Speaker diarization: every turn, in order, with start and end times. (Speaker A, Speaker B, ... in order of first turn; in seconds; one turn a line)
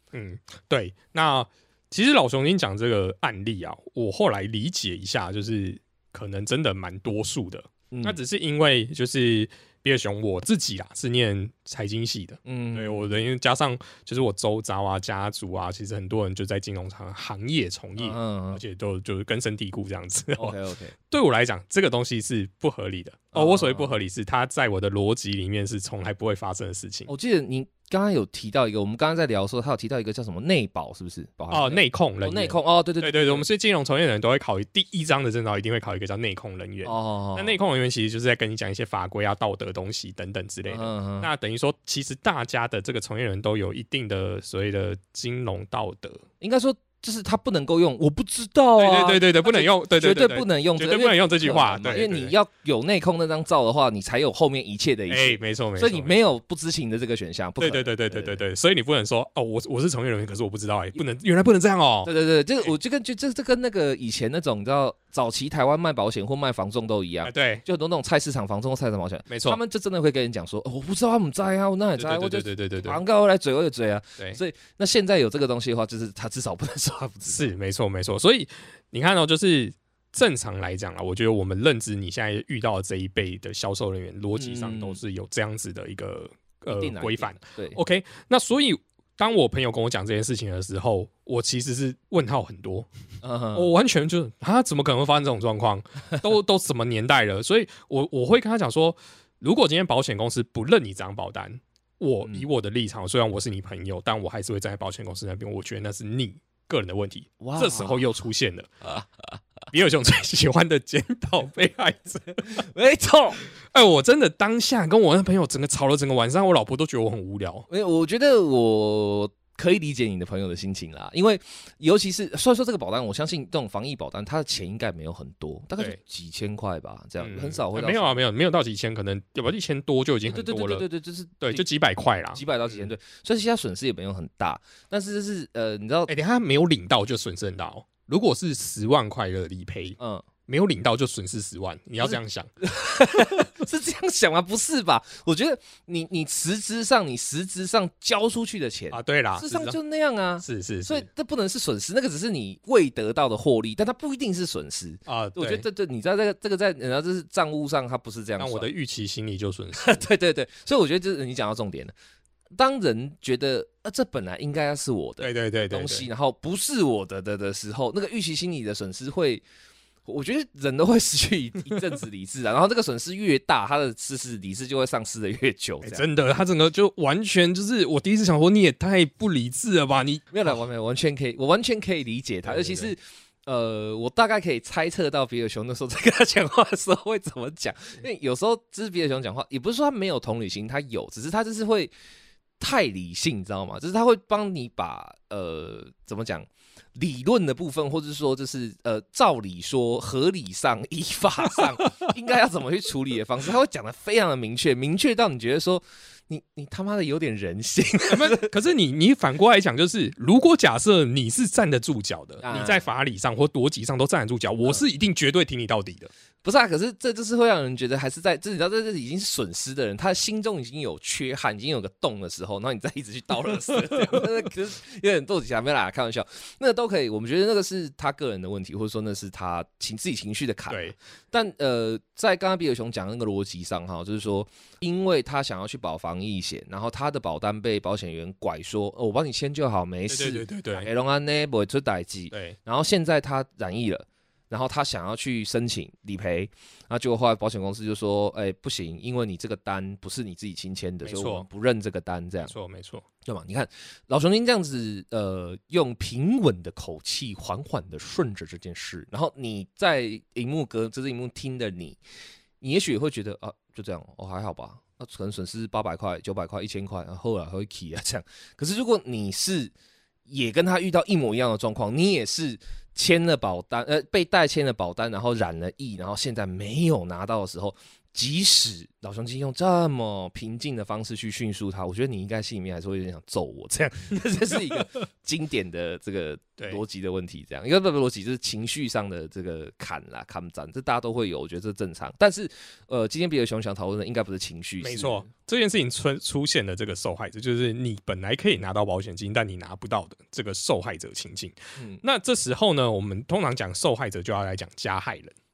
Speaker A: 0.1-20.6
Speaker B: 7.9-8.2
Speaker B: 12.4-13.2
Speaker B: 18.0-18.6
Speaker B: 20.4-20.9
Speaker A: 21.1-27.1
Speaker B: 23.3-24.0
Speaker B: 27.1-33.4
Speaker A: 31.5-46.2
Speaker B: 36.8-37.5
Speaker B: 40.7-41.3
Speaker B: 46.4-58.4
Speaker A: 48.8-52.3
Speaker A: 55.1-56.2
Speaker A: 57.6-62.1
Speaker B: 62.0-77.5
Speaker A: 67.2-67.6
Speaker A: 69.3-69.6
Speaker A: 72.0-73.0
Speaker A: 77.3-92.9
Speaker B: 84.3-85.0
Speaker B: 86.7-87.8
Speaker B: 93.2-93.7
Speaker A: 93.5-108.7
Speaker B: 107.4-108.0
Speaker B: 108.8-109.4
Speaker A: 109.7-112.7
Speaker B: 112.5-113.4
Speaker A: 113.6-117.7
Speaker B: 117.7-128.2
Speaker A: 127.2-130.8
Speaker B: 130.3-131.6
Speaker A: 131.4-132.9
Speaker B: 132.3-136.1
Speaker A: 136.1-142.5
Speaker B: 140.0-140.2
Speaker B: 142.0-158.7
Speaker A: 148.9-149.8
Speaker A: 150.4-151.1
Speaker A: 155.1-155.6
Speaker A: 158.4-160.0
Speaker B: 159.7-161.9
Speaker B: 162.6-169.4
Speaker A: 165.2-166.1
Speaker B: 170.0-176.0
Speaker A: 175.8-180.6
Speaker B: 180.3-191.9
Speaker A: 182.4-182.9
Speaker B: 192.6-208.5
Speaker A: 208.1-216.1
Speaker B: 212.4-212.8
Speaker B: 216.4-252.5
Speaker A: 223.9-224.2
Speaker A: 230.7-230.9
Speaker A: 240.1-240.9
Speaker A: 242.3-242.6
Speaker A: 251.0-251.4
Speaker A: 252.4-253.0
Speaker B: 253.2-262.0
Speaker B: 262.6-269.7
Speaker B: 270.3-295.3
Speaker A: 294.8-305.4
Speaker B: 301.8-302.0